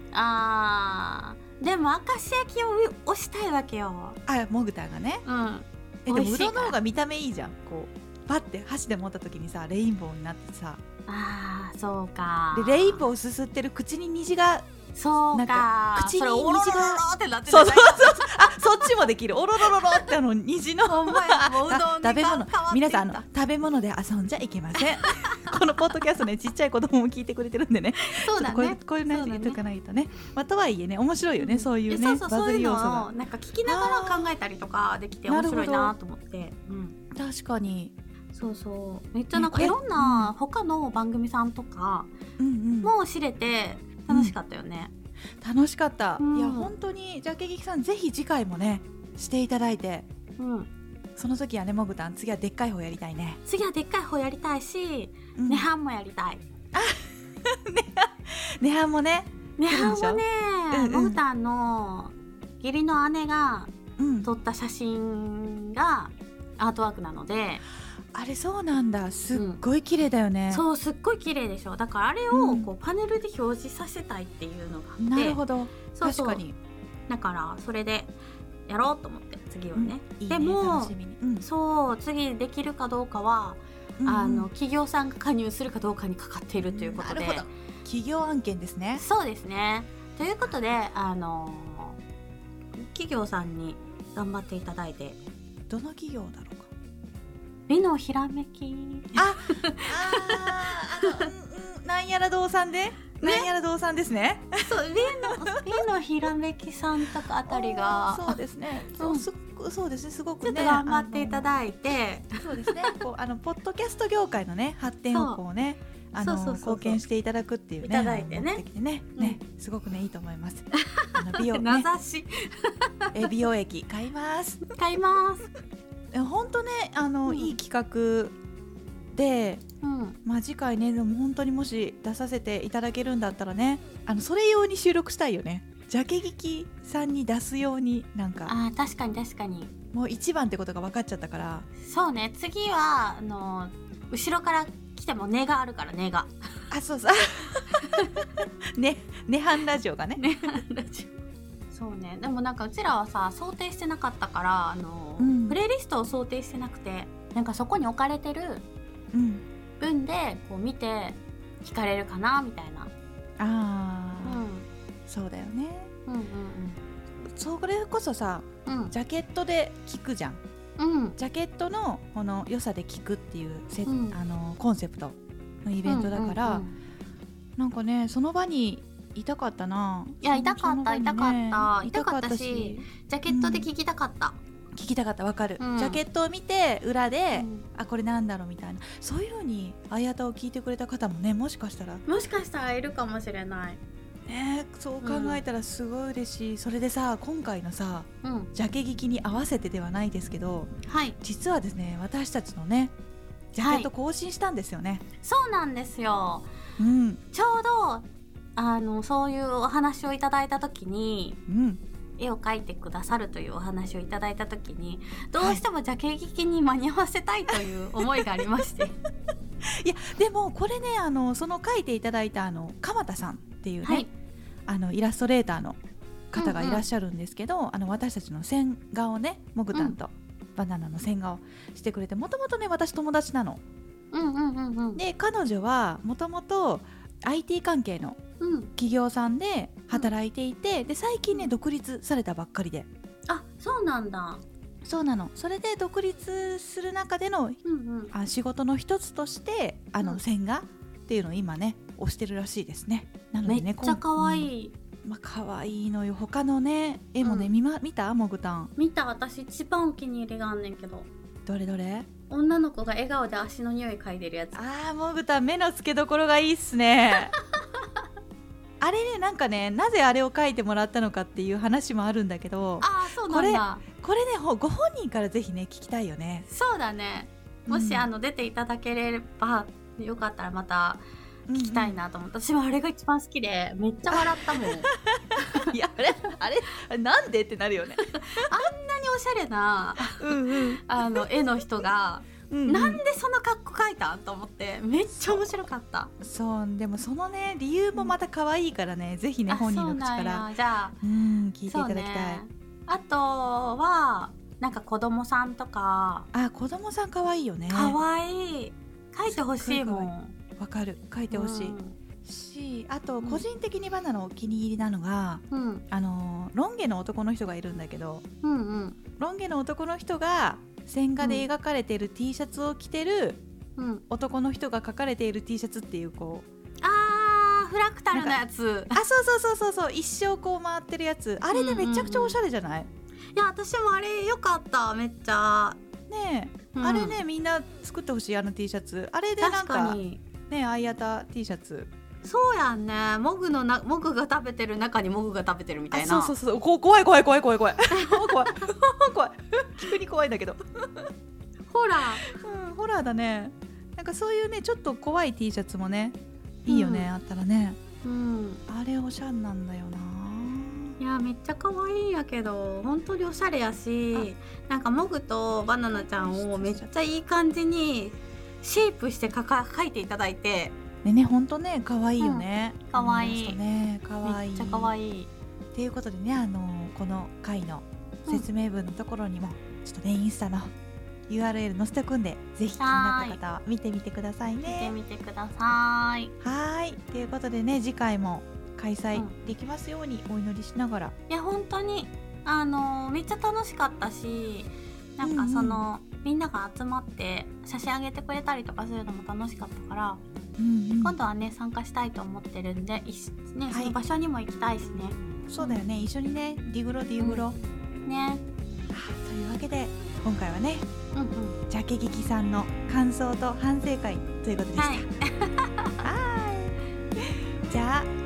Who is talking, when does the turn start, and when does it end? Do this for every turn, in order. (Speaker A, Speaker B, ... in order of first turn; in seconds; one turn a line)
Speaker A: 0.1-4.2
Speaker B: 4.3-5.2
Speaker A: 5.2-6.8
Speaker B: 6.1-10.8
Speaker A: 11.1-13.0
Speaker B: 12.5-14.7
Speaker A: 14.9-18.9
Speaker B: 15.3-33.1
Speaker A: 19.6-20.1
Speaker A: 20.9-23.2
Speaker A: 24.8-25.9
Speaker A: 28.0-29.6
Speaker A: 31.4-37.0
Speaker B: 33.7-34.4
Speaker B: 35.3-35.9
Speaker B: 37.1-37.9
Speaker A: 38.3-42.1
Speaker B: 39.3-40.3
Speaker B: 42.4-42.9
Speaker A: 42.8-44.9
Speaker B: 44.1-44.3
Speaker B: 45.4-50.1
Speaker A: 46.2-46.7
Speaker A: 50.4-50.7
Speaker B: 51.2-53.4
Speaker A: 53.5-56.4
Speaker B: 55.4-55.7
Speaker B: 56.7-61.2
Speaker A: 59.6-67.6
Speaker B: 64.0-64.3
Speaker B: 68.1-70.6
Speaker A: 69.3-69.6
Speaker A: 70.5-75.4
Speaker B: 72.3-72.7
Speaker B: 75.0-76.6
Speaker A: 75.9-76.4
Speaker A: 77.1-78.2
Speaker A: 78.7-87.5
Speaker B: 79.7-81.5
Speaker B: 84.0-84.5
Speaker B: 86.6-89.0
Speaker A: 89.0-92.0
Speaker A: 92.8-95.2
Speaker B: 95.7-96.7
Speaker A: 97.7-101.3
Speaker B: 99.2-105.8
Speaker A: 103.2-103.5
Speaker A: 104.6-109.3
Speaker B: 107.5-111.5
Speaker A: 110.4-113.0
Speaker B: 112.4-121.9
Speaker A: 115.1-115.4
Speaker A: 116.2-117.0
Speaker A: 117.8-118.6
Speaker A: 120.7-123.3
Speaker B: 123.1-124.7
Speaker A: 124.7-125.5
Speaker B: 126.1-128.4
Speaker A: 127.3-127.5
Speaker B: 129.1-129.6
Speaker A: 129.8-130.2
Speaker B: 130.2-138.6
Speaker A: 138.5-139.7
Speaker B: 139.9-141.7
Speaker A: 141.8-146.3
Speaker B: 146.7-148.0
Speaker A: 147.8-148.2
Speaker B: 148.8-150.3
Speaker A: 150.2-151.2
Speaker A: 151.7-158.7
Speaker B: 155.2-155.6
Speaker B: 159.1-159.4
Speaker A: 159.8-162.9
Speaker B: 163.4-164.4
Speaker A: 164.2-164.7
Speaker B: 165.1-165.9
Speaker A: 166.1-166.8
Speaker B: 167.3-170.4
Speaker A: 168.7-168.9
Speaker A: 170.8-171.2
Speaker B: 171.2-176.7
Speaker A: 173.9-174.2
Speaker A: 175.8-176.7
Speaker B: 177.6-183.7
Speaker A: 180.2-184.4
Speaker B: 184.7-192.0
Speaker A: 185.6-186.0
Speaker A: 187.3-187.7
Speaker A: 192.1-193.8
Speaker B: 194.3-202.9
Speaker A: 195.0-195.4
Speaker A: 198.2-198.5
Speaker A: 200.9-201.2
Speaker B: 203.5-205.1
Speaker A: 203.6-203.9
Speaker A: 205.2-206.5
Speaker B: 206.8-207.2
Speaker A: 207.3-211.4
Speaker B: 211.5-211.8
Speaker A: 212.2-218.9
Speaker B: 215.4-215.6
Speaker B: 217.5-218.5
Speaker B: 219.8-224.1
Speaker A: 223.8-224.1
Speaker B: 224.7-225.8
Speaker B: 226.3-233.6
Speaker A: 226.4-226.8
Speaker A: 234.1-235.0
Speaker B: 235.0-238.2
Speaker A: 238.4-238.7
Speaker B: 238.8-242.9
Speaker A: 243.3-244.4
Speaker B: 244.8-247.6
Speaker A: 247.7-248.1
Speaker B: 248.1-254.5
Speaker A: 253.4-254.7
Speaker B: 255.1-258.7
Speaker A: 257.2-257.5
Speaker A: 258.8-261.1
Speaker B: 261.5-262.1
Speaker A: 262.3-264.6
Speaker B: 264.6-267.3
Speaker A: 267.3-267.8
Speaker B: 268.8-276.5
Speaker A: 272.8-273.9
Speaker A: 276.5-284.9
Speaker B: 277.7-278.1
Speaker B: 281.5-282.0
Speaker B: 284.1-288.5
Speaker A: 285.4-285.7
Speaker A: 288.1-296.1
Speaker B: 290.1-291.3
Speaker B: 292.5-293.0
Speaker B: 296.2-300.5
Speaker A: 299.5-301.0
Speaker B: 301.0-302.4
Speaker A: 301.7-306.3
Speaker B: 306.3-308.0
Speaker A: 307.7-310.4
Speaker B: 309.3-318.2
Speaker A: 311.3-312.0
Speaker A: 315.5-315.9
Speaker A: 318.4-319.0
Speaker B: 319.2-323.4
Speaker A: 321.2-321.5
Speaker A: 323.8-324.0
Speaker B: 324.1-326.5
Speaker A: 326.8-329.0
Speaker B: 328.1-328.4
Speaker B: 328.9-332.9
Speaker A: 331.5-332.4
Speaker A: 333.4-335.8
Speaker B: 336.1-341.9
Speaker A: 336.7-337.2
Speaker A: 339.4-340.2
Speaker A: 342.2-346.4
Speaker B: 345.9-351.1
Speaker A: 347.9-348.7
Speaker A: 351.7-352.3
Speaker B: 352.1-357.8
Speaker A: 356.7-357.1
Speaker A: 358.0-358.6
Speaker B: 358.7-361.0
Speaker A: 361.0-370.8
Speaker B: 365.8-366.9
Speaker B: 371.0-374.9
Speaker A: 372.2-373.6
Speaker A: 374.2-375.3
Speaker B: 375.7-380.7
Speaker B: 381.3-384.9
Speaker A: 382.8-383.4
Speaker A: 384.6-386.3
Speaker B: 386.4-391.1
Speaker A: 391.3-400.2
Speaker B: 395.2-395.8
Speaker B: 400.6-401.2
Speaker A: 401.0-405.8
Speaker B: 403.7-404.0
Speaker B: 405.5-407.6
Speaker A: 407.2-407.5
Speaker A: 408.1-408.4
Speaker B: 408.9-410.9
Speaker A: 411.1-411.6
Speaker B: 411.7-415.1
Speaker A: 414.8-416.0
Speaker B: 416.0-418.1